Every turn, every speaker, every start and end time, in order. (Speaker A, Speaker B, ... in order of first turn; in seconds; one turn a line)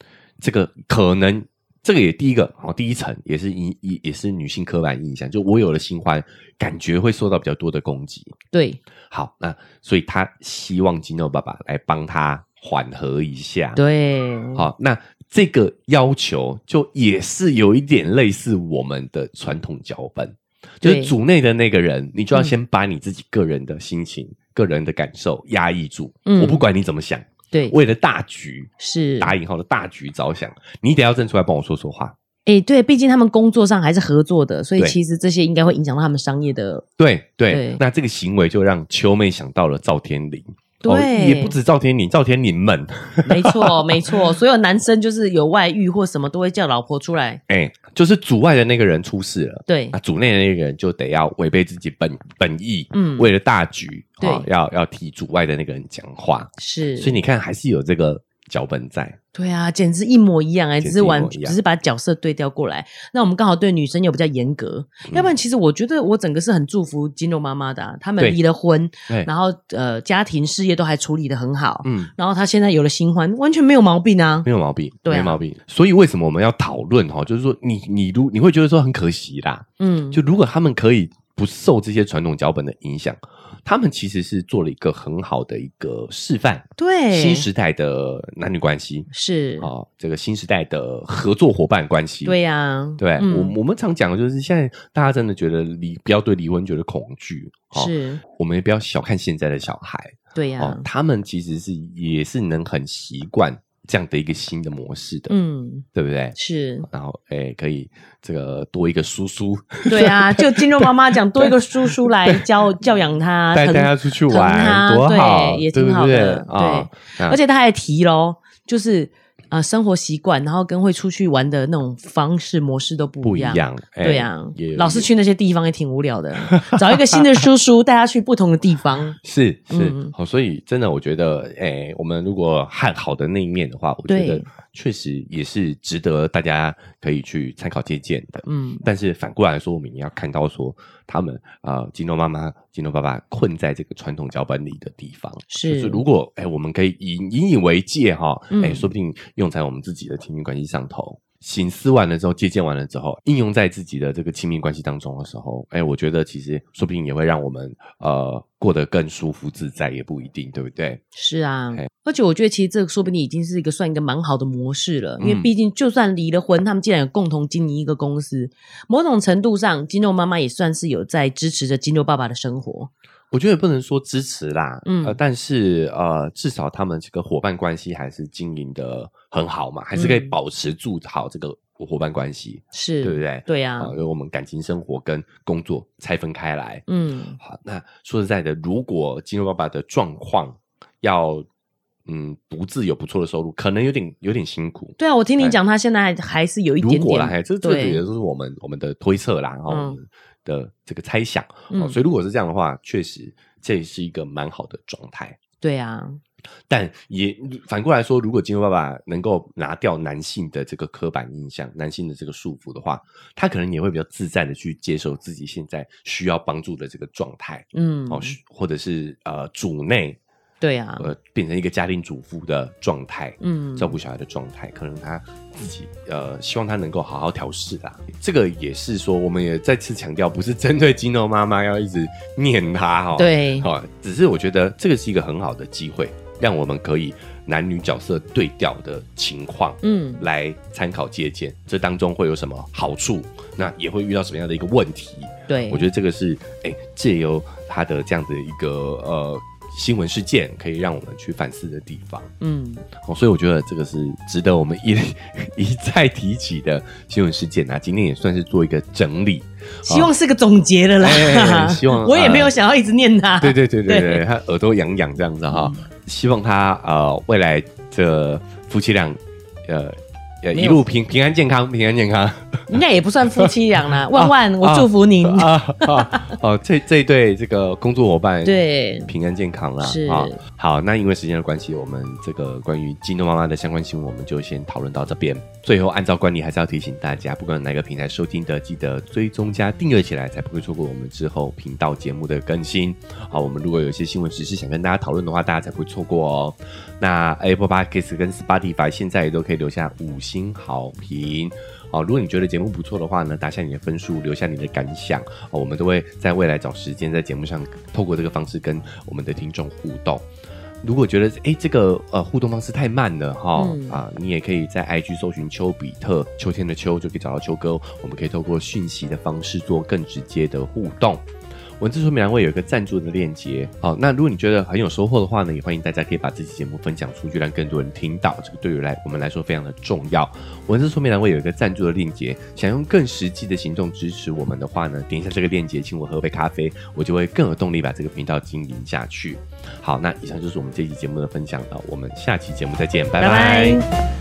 Speaker A: 0.4-8.3
Speaker B: 8.5-8.8
Speaker A: 9.1-13.8
Speaker B: 13.8-14.7
Speaker A: 14.5-32.1
Speaker B: 20.8-21.1
Speaker B: 26.2-26.6
Speaker B: 28.8-29.3
Speaker B: 32.5-36.8
Speaker A: 37.0-44.2
Speaker B: 37.5-37.8
Speaker B: 40.8-41.5
Speaker B: 43.2-47.4
Speaker A: 47.5-59.2
Speaker B: 49.7-50.0
Speaker B: 52.9-53.3
Speaker B: 54.2-54.5
Speaker B: 56.6-57.2
Speaker B: 59.3-74.5
Speaker A: 60.8-61.6
Speaker A: 71.8-72.1
Speaker A: 74.4-89.1
Speaker B: 75.0-75.4
Speaker B: 79.8-80.2
Speaker B: 86.8-87.5
Speaker B: 89.1-89.7
Speaker A: 89.6-92.4
Speaker B: 92.2-93.6
Speaker A: 93.0-105.3
Speaker B: 97.7-98.2
Speaker B: 100.3-100.8
Speaker B: 105.3-106.9
Speaker A: 105.9-106.3
Speaker A: 106.9-112.5
Speaker B: 109.9-129.2
Speaker A: 113.5-117.4
Speaker A: 123.2-125.1
Speaker A: 126.4-127.2
Speaker A: 129.2-161.0
Speaker B: 129.7-130.1
Speaker B: 134.1-134.4
Speaker B: 138.4-138.8
Speaker B: 145.5-146.0
Speaker B: 148.5-148.9
Speaker B: 161.1-172.9
Speaker A: 165.2-165.5
Speaker A: 173.3-186.8
Speaker B: 174.8-175.2
Speaker B: 179.9-180.3
Speaker B: 182.7-183.9
Speaker B: 186.9-187.4
Speaker A: 187.4-191.4
Speaker A: 192.1-195.6
Speaker B: 195.0-198.0
Speaker A: 196.8-205.4
Speaker B: 199.7-200.0
Speaker B: 201.7-202.0
Speaker B: 205.6-206.2
Speaker A: 206.7-220.2
Speaker B: 217.7-218.3
Speaker B: 220.6-221.1
Speaker A: 221.0-252.3
Speaker B: 223.4-223.9
Speaker B: 233.2-233.7
Speaker B: 239.8-240.2
Speaker B: 245.5-245.8
Speaker B: 252.4-252.9
Speaker A: 253.0-260.1
Speaker B: 259.8-264.2
Speaker A: 261.0-262.5
Speaker A: 263.4-272.7
Speaker B: 265.5-265.8
Speaker B: 270.5-270.8
Speaker B: 272.7-276.3
Speaker A: 274.1-310.3
Speaker B: 278.4-279.1
Speaker B: 279.8-280.4
Speaker A: 310.8-321.2
Speaker B: 313.6-314.0
Speaker A: 321.8-343.8
Speaker B: 343.2-343.9